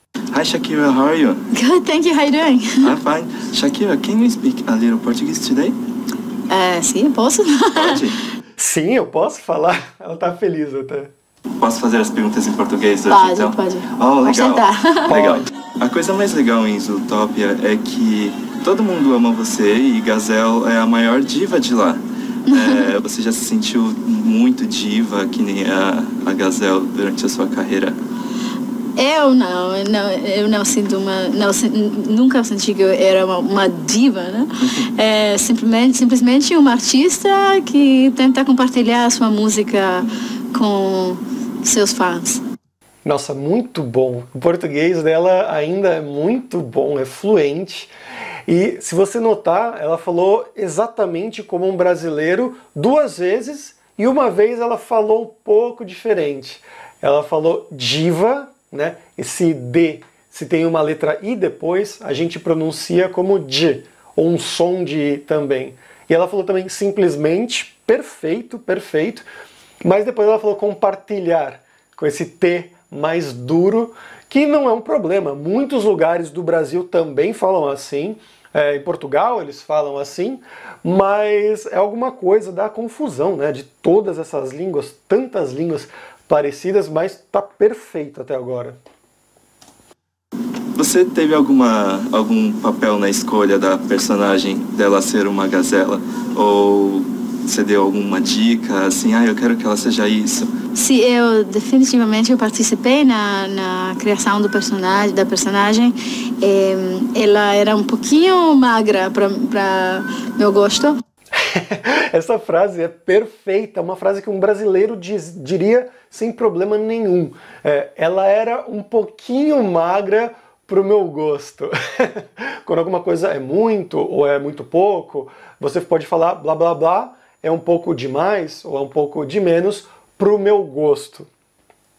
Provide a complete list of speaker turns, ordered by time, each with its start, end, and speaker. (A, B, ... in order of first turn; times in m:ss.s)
0:00.3-0:01.4 A
0:01.5-0:02.9 B
0:02.8-0:05.8 A
0:06.5-0:08.0 B
0:07.8-0:08.2 A
0:08.6-0:11.1 C
0:11.6-0:28.0 A
0:13.1-0:15.2 B
0:15.1-0:15.5 C
0:22.5-0:22.9 B
0:29.0-0:42.4 B
0:43.0-0:47.9 C
0:48.5-1:09.2 C
1:09.8-1:28.8 C
1:30.8-1:40.5 A
1:40.8-1:51.0 B
1:51.4-2:11.3 C